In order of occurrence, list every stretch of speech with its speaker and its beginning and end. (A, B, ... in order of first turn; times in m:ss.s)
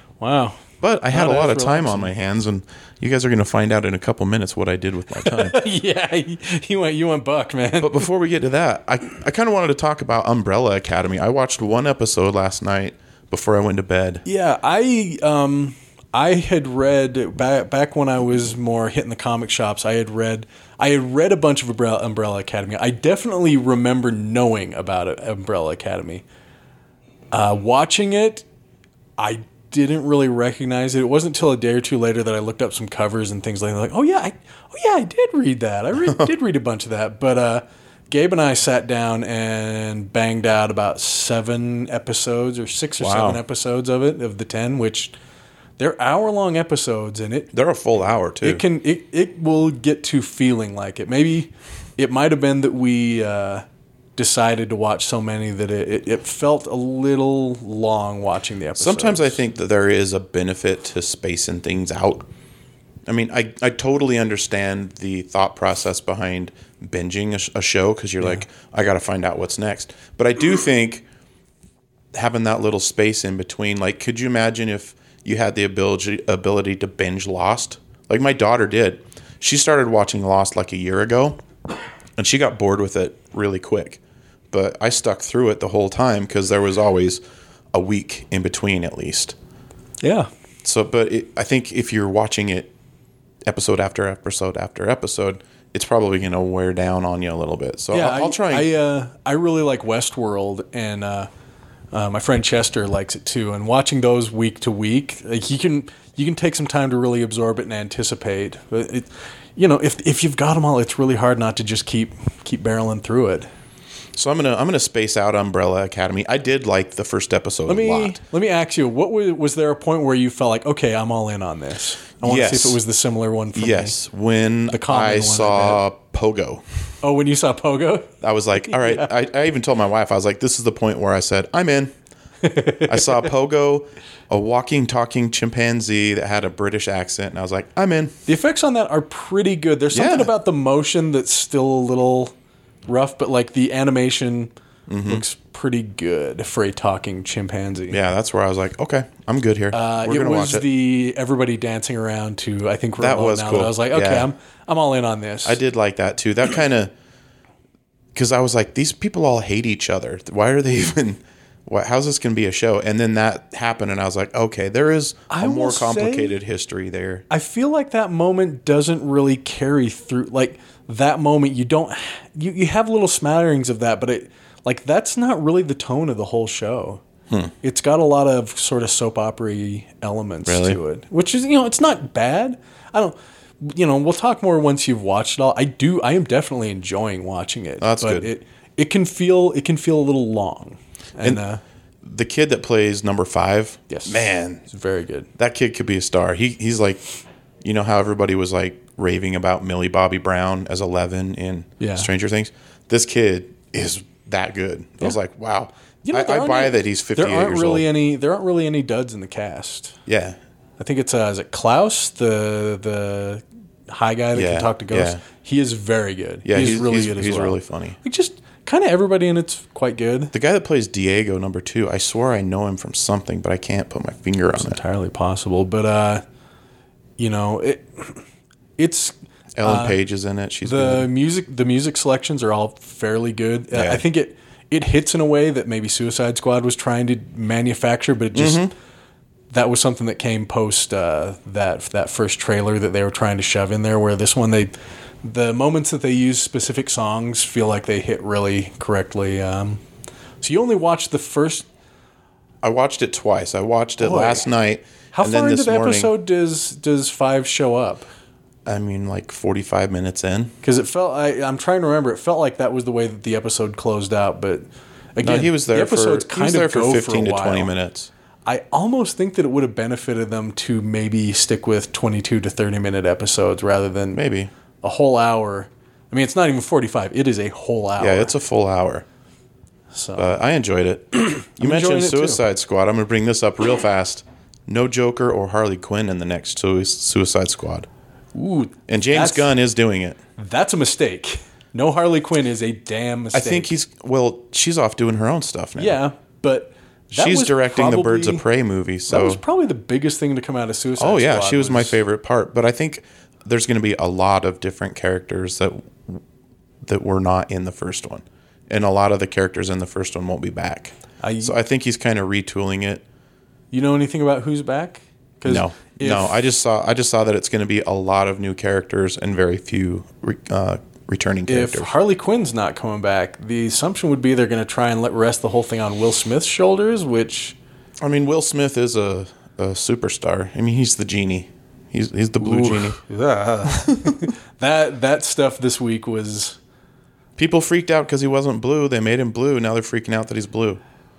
0:00.2-0:02.1 A
0:00.8-0:05.6 B
0:05.2-0:08.1 A
0:07.8-0:14.2 B
0:14.2-0:26.2 A
0:27.3-0:28.4 A
0:29.2-0:45.2 A
0:43.0-0:43.4 B
0:45.8-0:47.5 A
0:47.5-0:48.6 B
0:48.4-0:53.6 A
0:54.2-0:59.4 A
0:58.8-1:02.3 B
1:03.1-1:11.1 B
1:12.1-1:21.4 B
1:22.2-1:24.0 B
1:24.5-1:27.2 B
1:27.7-1:29.4 B
1:30.0-1:30.3 A
1:30.6-1:32.7 B
1:33.5-1:38.7 B
1:37.9-1:41.3 A
1:41.9-1:53.5 A
1:54.2-1:58.2 B
1:57.7-2:04.0 A
2:02.2-2:02.8 B
2:03.6-2:06.6 B
2:04.7-2:05.8 A
2:07.0-2:08.1 A
2:08.2-2:11.9 B
2:08.6-2:09.1 A
2:12.4-2:13.3 A
2:12.8-2:18.2 B
2:18.3-2:22.3 A
2:19.9-2:20.3 B
2:22.9-2:24.5 A
2:24.9-2:25.2 B
2:25.0-2:28.0 A
2:27.9-2:30.7 B
2:29.7-2:35.6 A
2:33.0-2:34.3 B
2:35.4-2:36.9 B
2:38.2-2:47.2 B
2:45.3-2:46.4 A
2:47.3-2:57.0 A
2:57.6-3:11.6 A
3:00.5-3:00.8 B
3:07.8-3:08.3 B
3:12.0-3:14.6 B
3:13.9-3:15.3 A
3:15.4-3:17.0 B
3:17.6-3:27.9 B
3:21.8-3:22.1 A
3:26.0-3:30.0 A
3:30.1-3:30.4 B
3:30.8-3:40.3 A
3:34.3-3:35.2 B
3:36.5-3:38.0 B
3:40.3-3:44.8 B
3:44.6-3:46.2 A
3:47.2-3:48.2 A
3:48.8-3:50.0 A
3:49.6-3:51.1 B
3:50.6-3:58.7 A
3:53.7-3:54.0 B
3:58.4-3:58.7 B
3:59.5-4:04.7 A
4:05.2-4:09.8 A
4:10.4-4:11.7 A
4:12.6-4:16.1 B
4:14.0-4:14.5 A
4:15.1-4:18.1 A
4:18.7-4:20.5 B
4:20.6-4:24.6 A
4:25.2-4:27.7 A
4:25.2-4:28.1 B
4:28.5-4:34.2 A
4:34.1-4:34.5 B
4:34.8-4:38.3 A
4:38.0-4:39.1 B
4:39.9-4:40.4 A
4:40.2-4:47.9 B
4:41.4-4:42.4 A
4:48.4-4:49.5 A
4:48.9-4:50.2 B
4:50.4-4:53.7 A
4:53.3-4:56.0 B
4:55.8-4:58.4 A
4:57.1-4:59.4 B
4:59.1-5:02.0 A
5:01.0-5:06.2 B
5:06.8-5:13.0 B
5:11.2-5:11.6 A
5:13.7-5:16.4 A
5:15.5-5:21.9 B
5:21.5-5:27.6 A
5:28.0-5:33.0 B
5:32.4-5:36.6 A
5:33.7-5:34.3 B
5:37.4-5:40.8 B